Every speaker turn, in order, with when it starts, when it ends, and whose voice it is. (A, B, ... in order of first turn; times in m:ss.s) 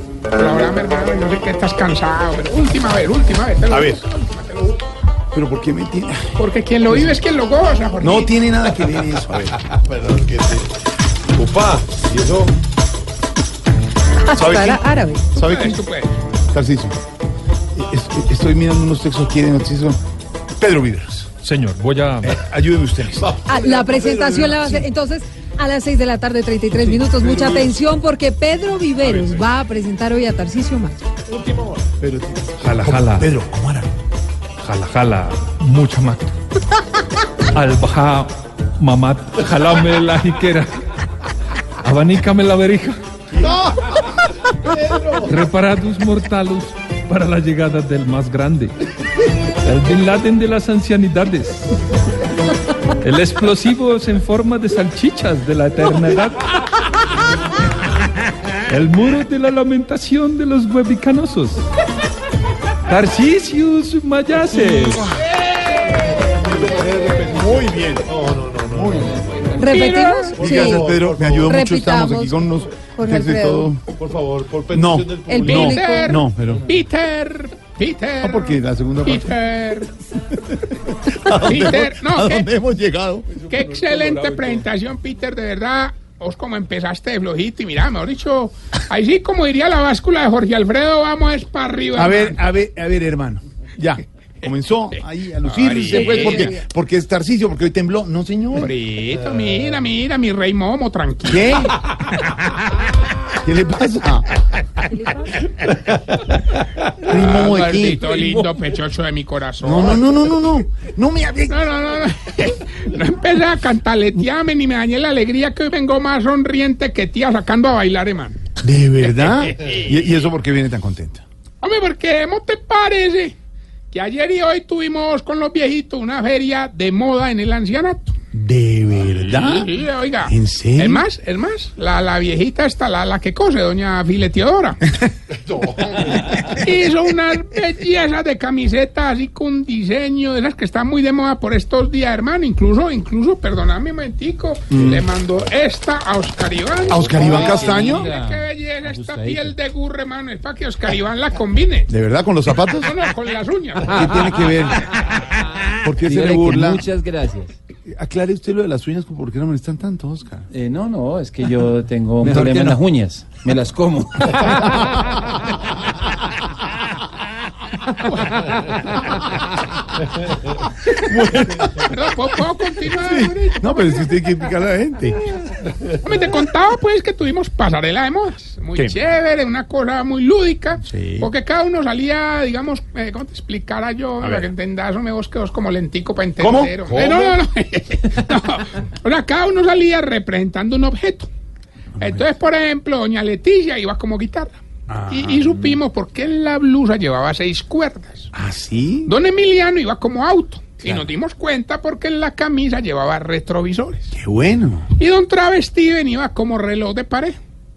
0:00.3-0:04.8 A
0:03.7-0:04.0 B
0:05.3-0:07.2 B
0:06.4-0:08.4 A
0:08.0-0:09.6 B
0:09.6-0:10.7 C
0:11.3-0:12.5 C
0:14.3-0:15.3 D
0:14.4-0:14.7 C
0:14.5-0:14.8 B
0:15.4-0:16.1 A
0:16.5-0:17.0 B
0:17.8-0:20.0 B
0:20.6-0:21.4 B
0:21.4-0:22.3 E
0:22.2-0:23.4 B
0:23.3-0:24.7 C
0:23.5-0:31.0 D
0:27.2-0:27.6 C
0:31.4-0:31.7 C
0:31.8-0:33.9 B
0:32.6-0:33.3 E
0:34.6-0:36.4 E
0:37.5-0:40.7 E
0:41.8-0:43.0 E
0:43.3-0:44.1 C
0:44.6-0:45.3 C
0:45.2-0:48.8 E
0:49.6-0:51.8 E
0:53.0-0:56.5 E
0:58.7-1:01.6 E
1:02.9-1:05.1 E
1:06.2-1:09.6 C
1:07.2-1:08.1 B
1:08.7-1:09.2 B
1:09.6-1:10.9 D
1:09.6-1:10.4 A
1:10.3-1:11.6 C
1:10.4-1:13.8 B
1:11.5-1:13.7 D
1:13.9-1:15.7 C
1:14.7-1:16.6 B
1:15.2-1:16.2 D
1:15.4-1:19.9 A
1:18.2-1:19.4 B
1:20.3-1:23.4 B
1:21.3-1:22.5 A
1:23.4-1:32.4 A
1:31.9-1:38.7 B
1:35.4-1:36.5 A
1:36.1-1:36.6 D
1:38.5-1:42.6 A
1:41.2-1:41.9 B
1:43.4-1:44.4 B
1:44.9-1:45.3 D
1:47.0-1:48.5 B
1:47.1-1:50.0 A
1:49.6-1:51.6 B
1:51.5-1:58.4 A
1:58.6-2:01.2 B
1:59.2-1:59.9 A
2:01.6-2:03.4 A
2:03.9-2:08.2 A
2:08.3-2:11.0 B
2:09.3-2:15.0 A
2:15.4-2:16.4 C
2:16.4-2:31.9 A
2:24.7-2:25.0 B
2:26.9-2:28.1 B
2:27.1-2:29.5 F
2:31.9-2:32.9 B
2:32.8-2:34.3 A
2:33.8-2:35.2 B
2:35.8-2:36.9 B
2:36.0-2:37.6 F
2:37.9-2:40.5 B
2:40.5-2:44.8 F
2:42.2-2:42.8 B
2:44.6-2:45.3 B
2:48.0-2:48.7 A
2:50.9-2:52.0 B
2:51.8-2:54.1 A
2:53.0-2:55.2 B
2:55.9-3:11.3 A
3:00.9-3:01.3 B
3:04.2-3:04.5 B
3:06.4-3:07.4 B
3:12.0-3:18.3 A
3:14.9-3:15.8 B
3:18.3-3:19.1 B
3:19.0-3:24.1 A
3:20.8-3:21.1 B
3:24.1-3:24.9 B
3:24.9-3:27.4 A